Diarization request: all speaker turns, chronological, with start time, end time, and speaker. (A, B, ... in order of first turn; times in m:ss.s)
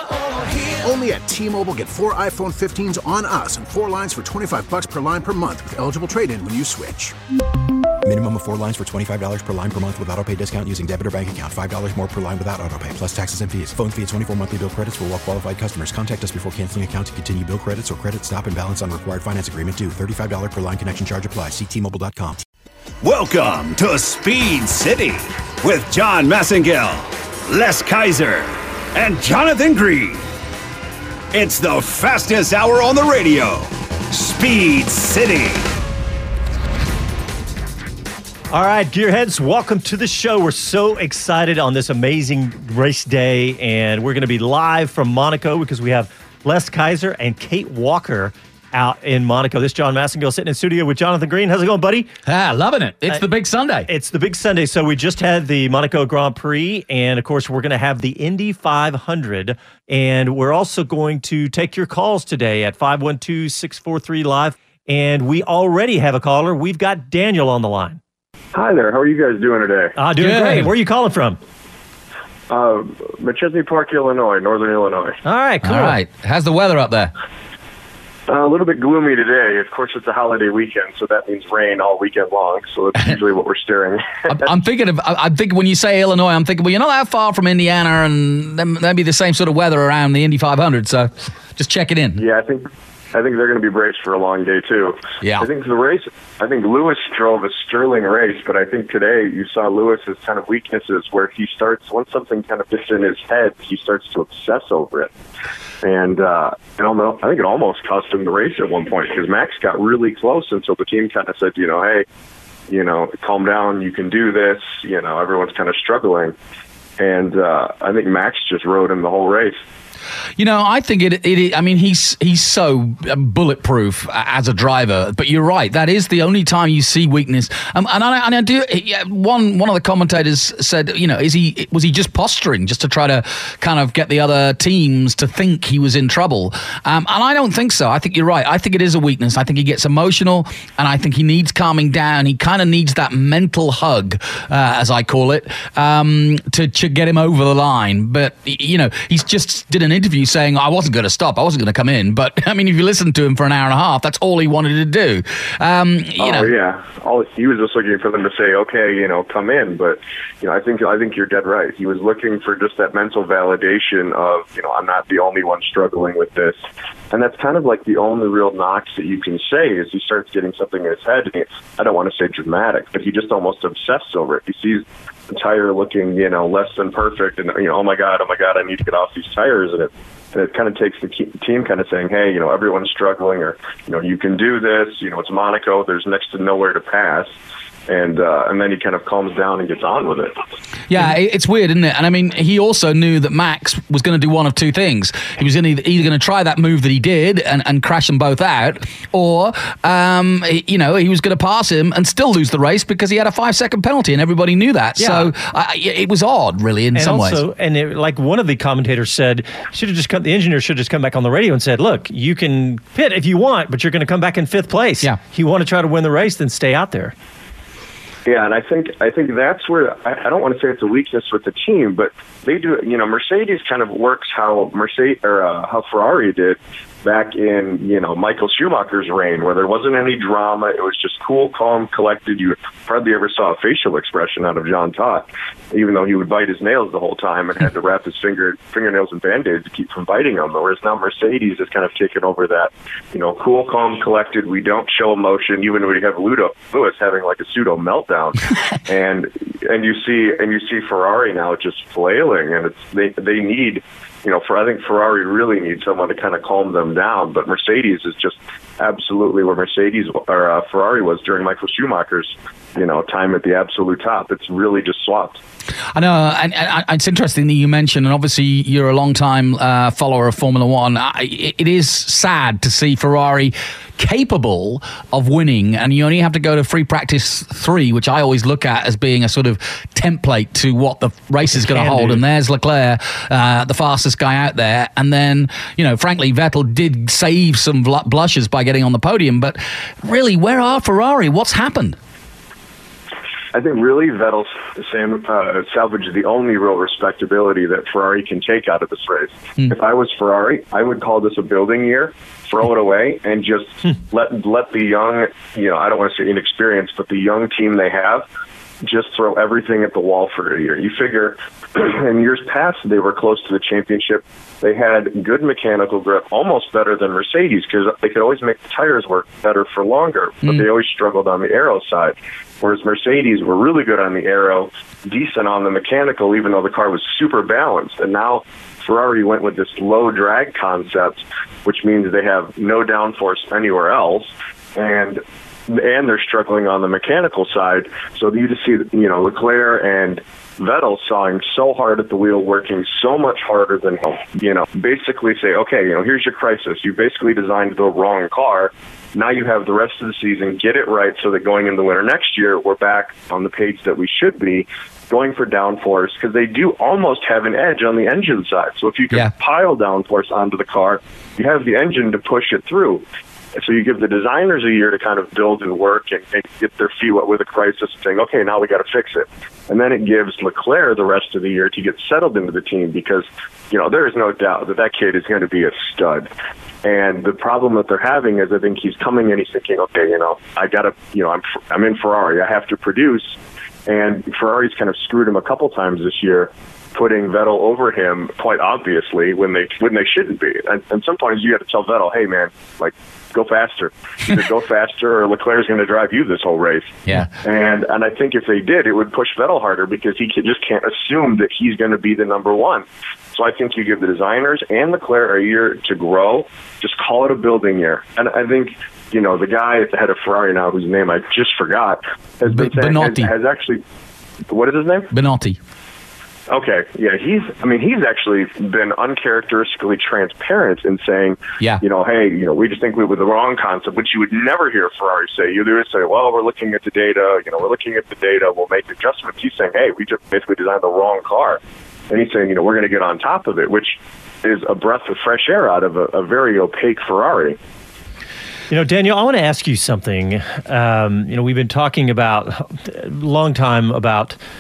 0:00.3-0:07.1 A
0:08.0-0:22.4 B
0:23.0-0:30.2 C
0:31.3-0:35.7 C
0:38.5-0:52.1 D
0:52.3-0:53.9 E
0:53.9-1:08.0 D
1:08.5-1:10.0 F
1:10.0-1:11.4 D
1:10.2-1:10.7 E
1:12.5-1:15.2 F
1:15.2-1:16.0 D
1:15.6-1:17.1 E
1:18.3-1:24.5 F
1:24.3-1:32.2 E
1:32.2-1:45.1 F
1:35.2-1:35.5 E
1:45.8-1:52.1 F
1:52.7-1:56.4 F
1:57.0-1:59.6 F
2:00.4-2:36.5 E
2:36.2-2:46.6 F
2:47.1-3:07.3 F
3:07.9-3:10.4 F
3:10.9-3:27.4 E
3:25.0-3:25.3 D
3:27.0-3:37.1 D
3:38.3-4:25.4 F
4:26.0-4:52.0 E
4:41.5-4:42.2 D
4:53.5-5:08.3 F
5:08.8-6:03.0 F
6:03.6-6:16.3 F
6:16.8-6:53.8 F
6:52.5-6:53.3 E
6:54.5-6:55.1 F
6:55.1-6:55.6 E
6:56.5-7:17.6 F
7:18.7-7:24.4 D